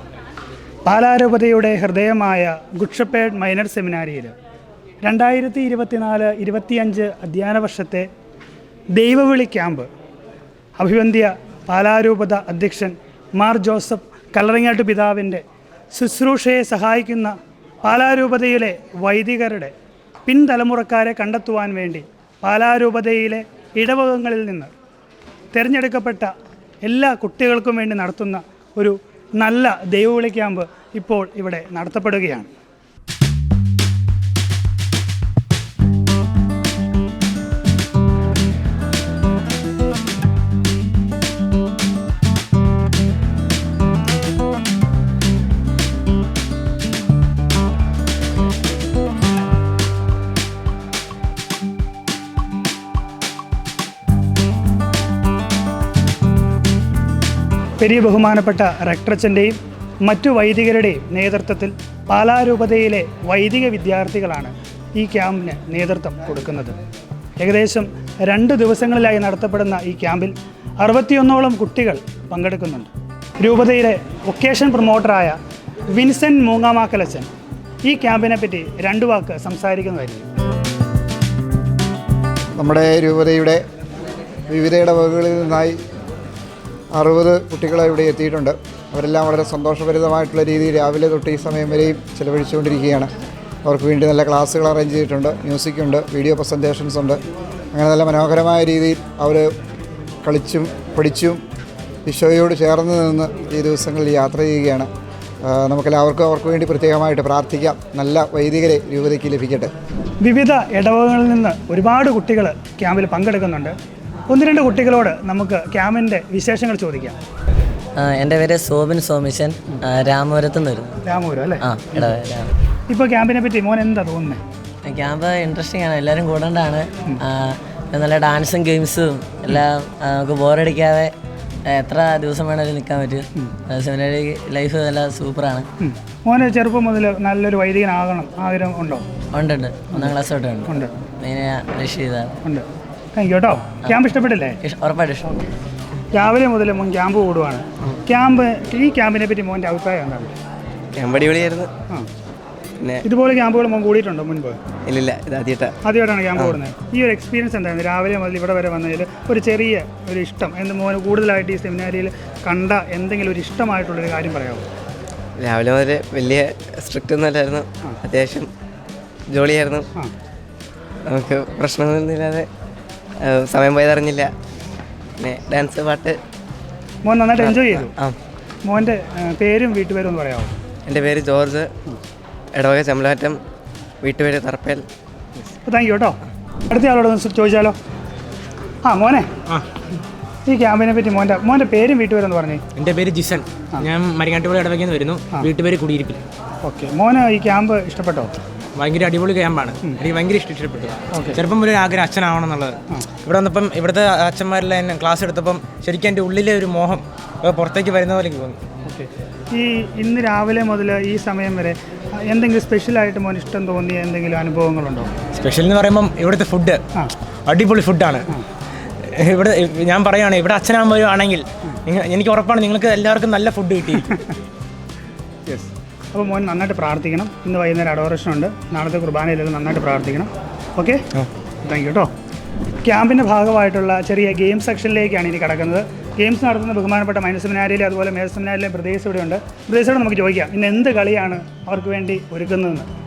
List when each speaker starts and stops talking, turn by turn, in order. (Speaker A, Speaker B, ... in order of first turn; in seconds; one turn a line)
Speaker A: 0.9-4.3
Speaker A: 5.0-8.1
Speaker A: 8.9-9.9
Speaker A: 10.8-19.7
Speaker A: 20.3-24.7
Speaker A: 25.5-26.3
Speaker A: 26.8-32.5
Speaker A: 57.8-66.8
Speaker A: 67.4-75.4
Speaker A: 75.9-77.3
Speaker A: 77.8-80.3
Speaker B: 82.6-83.6
Speaker B: 84.5-85.8
Speaker B: 86.9-93.1
Speaker B: 93.7-97.2
Speaker B: 97.7-99.5
Speaker B: 100.2-101.4
Speaker B: 102.0-104.9
Speaker B: 105.5-109.7
Speaker A: 110.2-113.7
Speaker A: 114.3-117.2
Speaker C: 118.0-120.9
Speaker A: 121.1-121.6
Speaker C: 121.6-122.5
Speaker A: 122.9-124.4
Speaker C: 124.9-131.1
Speaker C: 131.7-135.7
Speaker A: 135.8-139.1
Speaker C: 139.3-142.3
Speaker A: 142.4-144.6
Speaker C: 144.6-145.4
Speaker A: 146.1-150.3
Speaker D: 150.9-151.7
Speaker D: 152.8-153.1
Speaker A: 153.0-154.6
Speaker D: 154.9-155.8
Speaker A: 155.8-164.7
Speaker D: 165.4-168.5
Speaker D: 169.3-169.9
Speaker D: 171.1-172.5
Speaker D: 173.2-174.3
Speaker D: 175.2-176.2
Speaker A: 177.0-177.9
Speaker D: 177.4-178.2
Speaker A: 178.6-180.5
Speaker D: 180.9-181.7
Speaker D: 182.5-183.4
Speaker D: 184.0-184.9
Speaker A: 185.5-186.2
Speaker A: 186.7-187.8
Speaker A: 188.8-189.3
Speaker A: 190.5-192.6
Speaker E: 192.8-196.2
Speaker A: 196.6-198.3
Speaker E: 198.8-208.6
Speaker A: 201.1-201.4
Speaker A: 208.9-215.1
Speaker E: 215.3-216.8
Speaker E: 217.5-218.3
Speaker E: 219.0-224.1
Speaker A: 225.5-231.1
Speaker A: 231.6-232.1
Speaker A: 232.8-242.9